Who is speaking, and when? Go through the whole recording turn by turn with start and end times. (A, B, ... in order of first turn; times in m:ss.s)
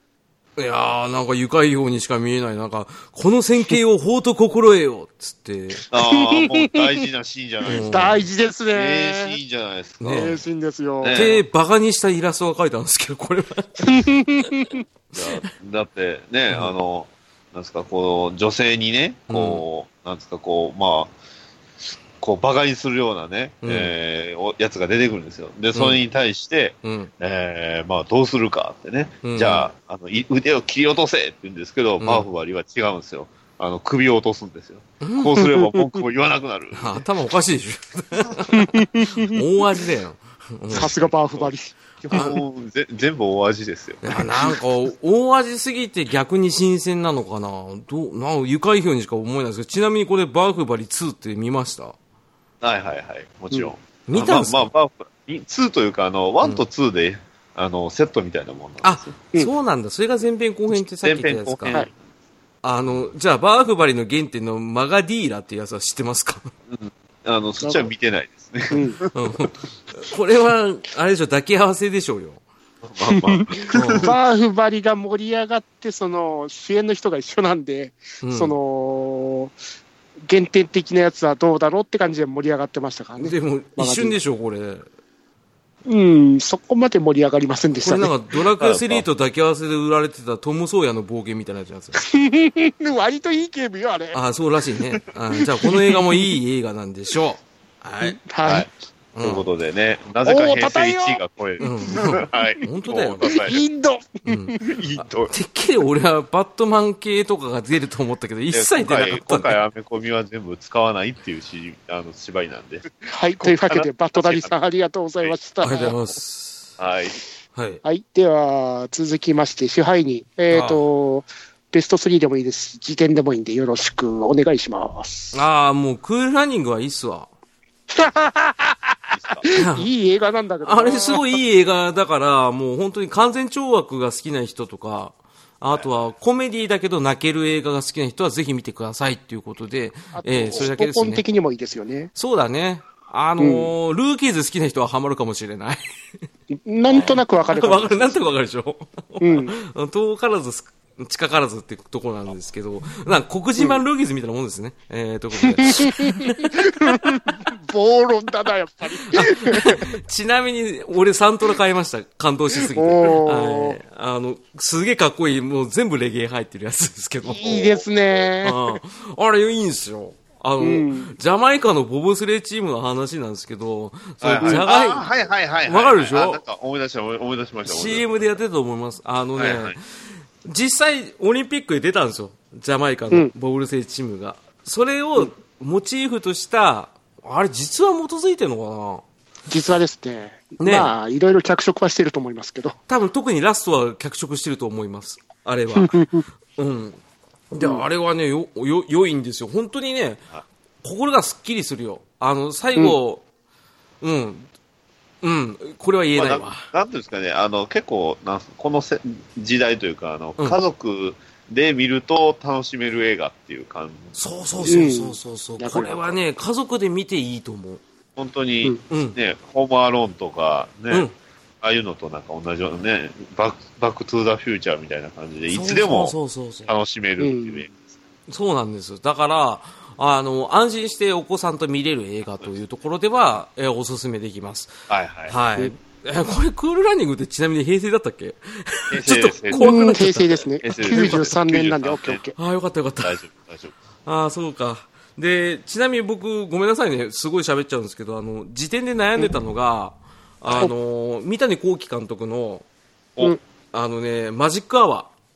0:00.6-0:05.8 A
0:05.9-0:08.2 B
0:06.0-0:06.9 C
0:07.7-0:08.2 A
0:07.8-0:09.4 C
0:08.7-0:10.4 B
0:10.0-0:10.4 A
0:10.1-0:11.4 C
0:11.0-0:11.4 B
0:11.1-0:14.0 A
0:13.8-0:14.8 C
0:15.1-0:15.4 A
0:15.1-0:21.1 B
0:19.3-0:19.6 A
0:21.8-0:37.0 B
0:23.6-0:23.9 A
0:25.7-0:26.0 A
0:26.8-0:27.1 A
0:29.2-0:29.7 A
0:32.0-0:32.3 A
0:35.0-0:35.4 A
0:35.4-0:36.0 C
0:36.8-0:41.0 A
0:38.5-0:39.4 C
0:40.7-0:42.3 C
0:40.8-0:41.5 B
0:42.1-0:44.5 B
0:42.1-0:42.4 A
0:44.0-0:52.0 A
0:52.6-0:59.1 B
0:54.1-0:54.7 A
0:58.8-1:01.8 A
1:00.8-1:01.9 B
1:02.6-1:06.5 A
1:06.7-1:09.5 B
1:07.6-1:07.9 C
1:08.7-1:09.0 C
1:09.1-1:12.4 A
1:12.8-1:14.1 B
1:13.1-1:19.6 C
1:13.7-1:14.1 A
1:18.2-1:18.6 A
1:20.3-1:24.2 C
1:23.2-1:24.9 A
1:25.9-1:28.1 C
1:27.8-1:32.0 A
1:28.6-1:29.1 B
1:32.0-1:34.2 C
1:34.1-1:38.2 A
1:35.4-1:36.0 C
1:38.0-1:38.7 C
1:38.4-1:38.7 B
1:39.2-1:39.5 A
1:39.2-1:43.6 B
1:40.2-1:41.2 C
1:41.6-1:43.5 A
1:43.2-1:44.6 C
1:44.3-1:44.6 A
1:44.6-1:45.3 B
1:45.3-1:49.6 A
1:48.5-1:52.9 B
1:53.0-1:56.0 C
1:53.4-1:54.5 B
1:55.2-1:56.0 B
1:55.6-1:56.7 A
1:56.8-1:57.2 B
1:57.6-1:57.8 A
1:57.8-2:05.4 C
2:00.5-2:00.8 A
2:05.3-2:07.3 A
2:07.9-2:11.4 C
2:09.1-2:09.5 B
2:09.6-2:09.9 A
2:10.6-2:21.2 A
2:20.2-2:22.1 C
2:22.2-2:25.8 A
2:23.4-2:23.7 C
2:26.5-2:28.3 C
2:27.0-2:36.7 A
2:29.2-2:29.5 C
2:35.4-2:39.9 C
2:39.1-2:47.6 A
2:42.7-2:43.8 C
2:47.2-2:48.8 C
2:47.4-2:48.3 B
2:48.4-2:55.1 A
2:50.6-2:51.1 C
2:54.2-2:58.4 B
2:54.4-2:54.6 C
2:55.6-2:56.4 A
2:57.6-2:59.8 A
2:59.4-2:59.8 B
3:00.4-3:09.0 A
3:09.5-3:12.8 C
3:10.6-3:10.9 A
3:12.9-3:16.0 A
3:15.8-3:16.2 C
3:16.6-3:17.0 A
3:17.5-3:20.2 A
3:17.6-3:17.8 C
3:20.8-3:23.2 A
3:24.0-3:24.5 A
3:25.2-3:26.7 A
3:26.2-3:34.2 B
3:34.2-3:37.8 A
3:34.6-3:36.2 C
3:38.2-3:41.1 B
3:38.9-3:39.2 A
3:41.6-3:46.2 B
3:45.5-3:46.7 A
3:46.7-3:48.0 B
3:47.2-3:47.6 C
3:48.3-3:54.7 A
3:54.9-3:55.4 B
3:55.3-4:01.0 A
3:58.9-4:02.2 B
3:59.6-4:02.4 C
4:02.4-4:03.2 A
4:03.0-4:03.8 B
4:04.1-4:12.6 A
4:10.4-4:10.7 B
4:13.7-4:15.1 A